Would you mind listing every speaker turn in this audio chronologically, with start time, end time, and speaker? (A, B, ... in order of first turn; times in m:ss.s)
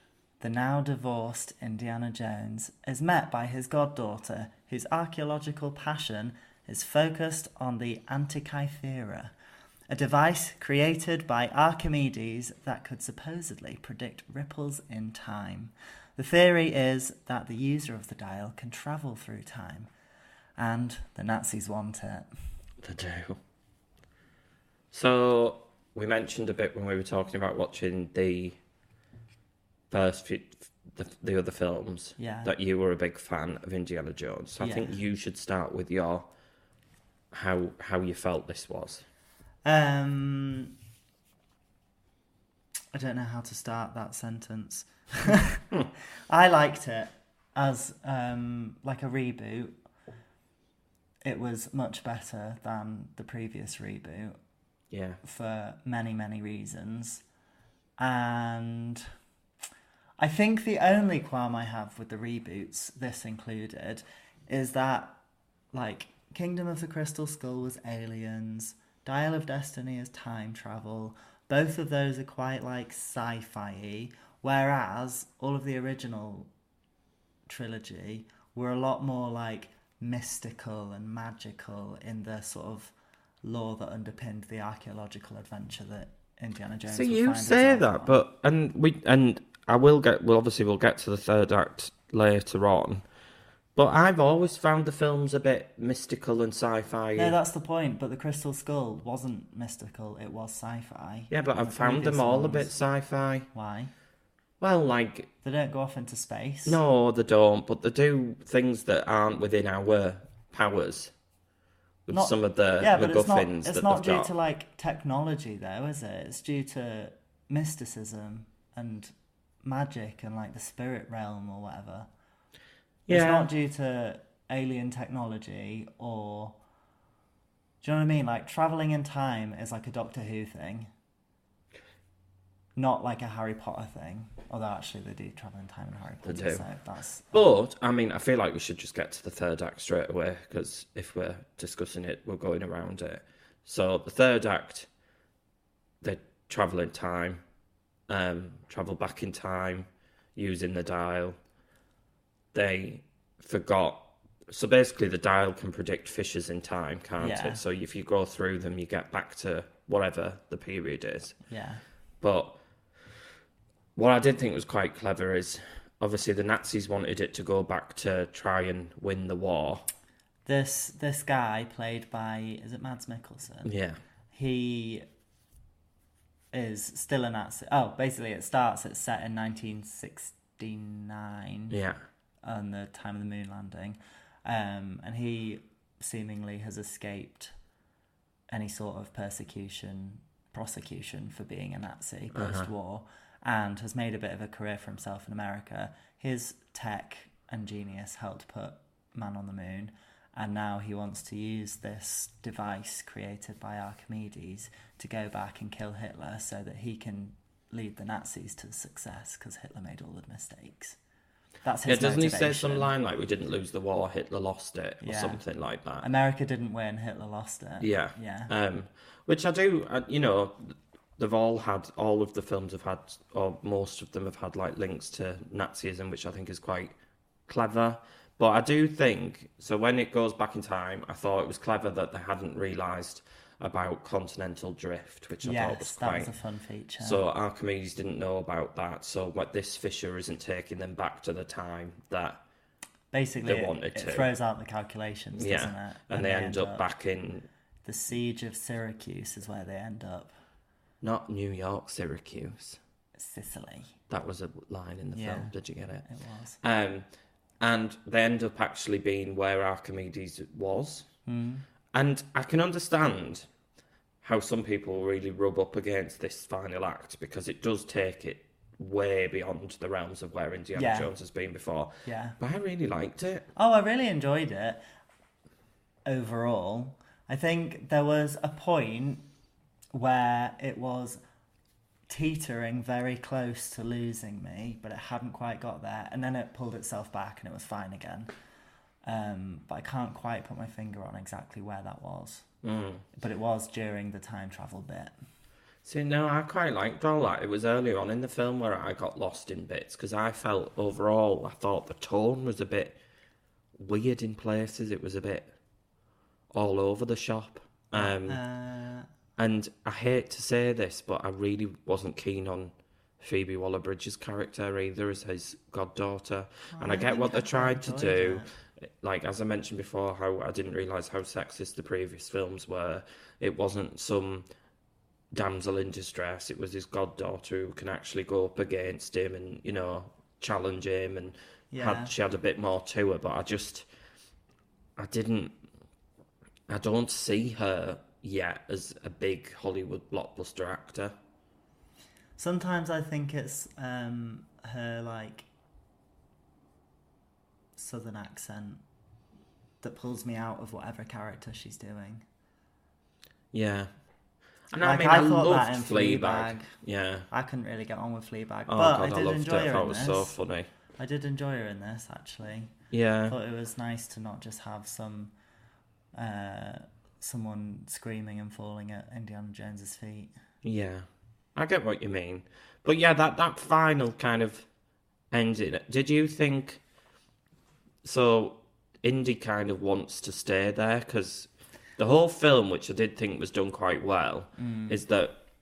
0:00.4-0:09.3 A
0:09.9-0:19.9 A
0:20.6-0:22.3 A
0:22.8-0:23.4 B
0:24.9-0:28.6 B
0:29.9-0:36.3 B
0:32.2-0:32.5 A
0:34.6-0:35.0 A
0:37.3-0:39.0 B
0:39.6-0:40.7 A
0:42.9-0:45.7 A
0:46.3-0:49.8 A
0:51.2-0:54.4 A
0:54.9-0:55.2 B
0:55.2-0:57.2 A
0:58.0-0:59.1 A
1:00.2-1:05.2 A
1:05.7-1:16.5 A
1:17.5-1:28.2 A
1:26.9-1:33.0 B
1:33.8-1:37.4 B
1:37.2-1:42.7 A
1:41.3-1:43.5 B
1:43.5-1:43.9 A
1:44.6-1:45.3 B
1:45.4-1:46.8 A
1:46.6-1:51.1 B
1:52.1-1:54.3 B
1:52.1-2:02.1 A
2:03.1-2:03.5 B
2:03.1-2:06.6 A
2:07.8-2:10.9 A
2:12.8-2:17.5 A
2:16.2-2:16.6 B
2:17.3-2:24.9 B
2:26.0-2:27.4 B
2:28.1-2:31.4 B
2:32.5-2:41.4 B
2:37.2-2:37.6 A
2:41.5-2:41.8 A
2:42.2-2:42.6 B
2:44.0-2:49.9 B
2:50.4-2:53.7 A
2:53.6-2:54.0 B
2:54.3-2:55.1 A
2:56.5-3:01.8 A
3:01.7-3:02.0 B
3:02.4-3:07.5 A
3:08.5-3:31.0 A
3:12.4-3:12.7 B
3:31.6-3:32.9 A
3:31.9-3:36.1 B
3:35.0-3:35.4 A
3:36.0-3:38.5 A
3:37.8-3:47.0 B
3:47.5-3:56.3 B
3:55.4-3:57.2 A
3:57.0-4:02.4 B
4:03.1-4:06.9 A
4:03.4-4:04.3 B
4:05.4-4:07.5 B
4:07.8-4:10.3 A
4:11.0-4:12.8 B
4:13.2-4:14.0 A
4:14.1-4:16.0 B
4:15.1-4:15.5 A
4:16.0-4:16.6 A
4:16.6-4:17.1 B
4:17.6-4:21.1 B
4:21.3-4:21.6 A
4:21.9-4:23.5 B
4:24.2-4:33.5 B
4:30.8-4:31.1 A
4:32.0-4:32.4 A
4:33.6-4:34.8 A
4:36.1-4:39.3 A
4:39.9-4:41.2 A
4:42.1-4:48.3 A
4:49.0-4:52.4 A
4:52.6-4:53.0 B
4:53.2-4:55.1 A
4:55.8-5:03.0 B
5:03.8-5:05.5 B
5:06.5-5:08.4 B
5:07.9-5:09.1 A
5:09.4-5:18.4 B
5:16.7-5:18.5 A
5:19.0-5:24.5 B
5:25.3-5:33.9 B
5:31.7-5:32.1 A
5:35.0-5:35.6 B
5:36.7-5:41.1 B
5:42.4-5:45.5 A
5:47.8-5:48.8 A
5:49.8-5:52.2 A
5:53.5-5:53.9 B
5:54.7-5:57.3 B
5:54.8-5:56.7 A
5:57.3-6:00.3 A
5:58.7-6:00.7 B
6:01.0-6:02.7 A
6:02.9-6:03.4 B
6:03.3-6:05.3 A
6:06.1-6:10.3 A
6:10.6-6:14.6 B
6:15.3-6:16.8 B
6:18.0-6:25.4 B
6:24.6-6:25.0 A